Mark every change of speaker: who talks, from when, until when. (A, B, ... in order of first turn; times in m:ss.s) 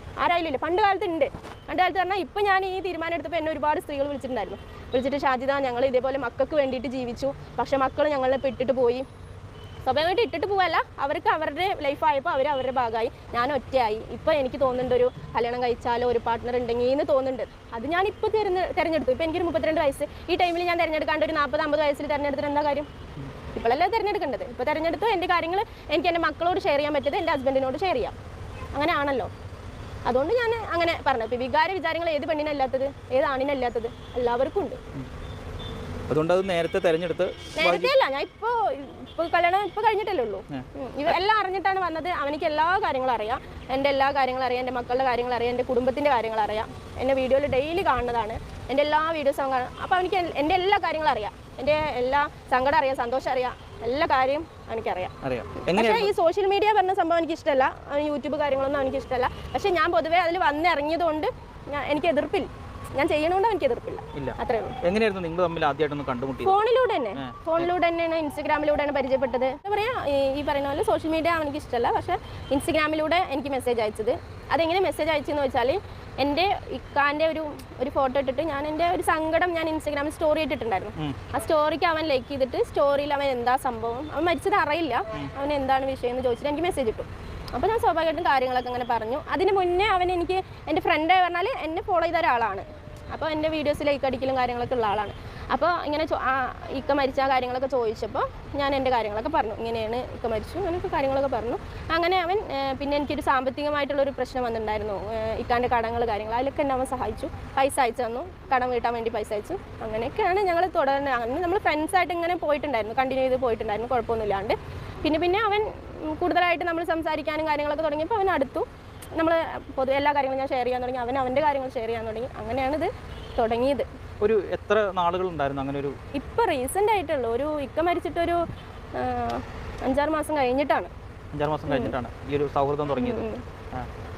0:00.2-0:09.0 A
0:09.8-0:22.9 A
0:23.5-0:28.2 A
0:28.7-0:29.3 A
0:30.0-0:34.8 A
0:36.1-0:37.9 B
0:37.6-0:55.1 A
0:40.5-0:41.1 B
0:55.2-0:56.1 B
0:55.7-1:04.8 A
1:04.1-1:06.6 B
1:06.4-2:03.8 A
1:07.2-1:07.7 B
2:04.2-2:06.0 B
2:06.1-2:10.9 A
2:11.3-2:13.9 B
2:11.7-2:11.9 A
2:13.0-2:13.4 A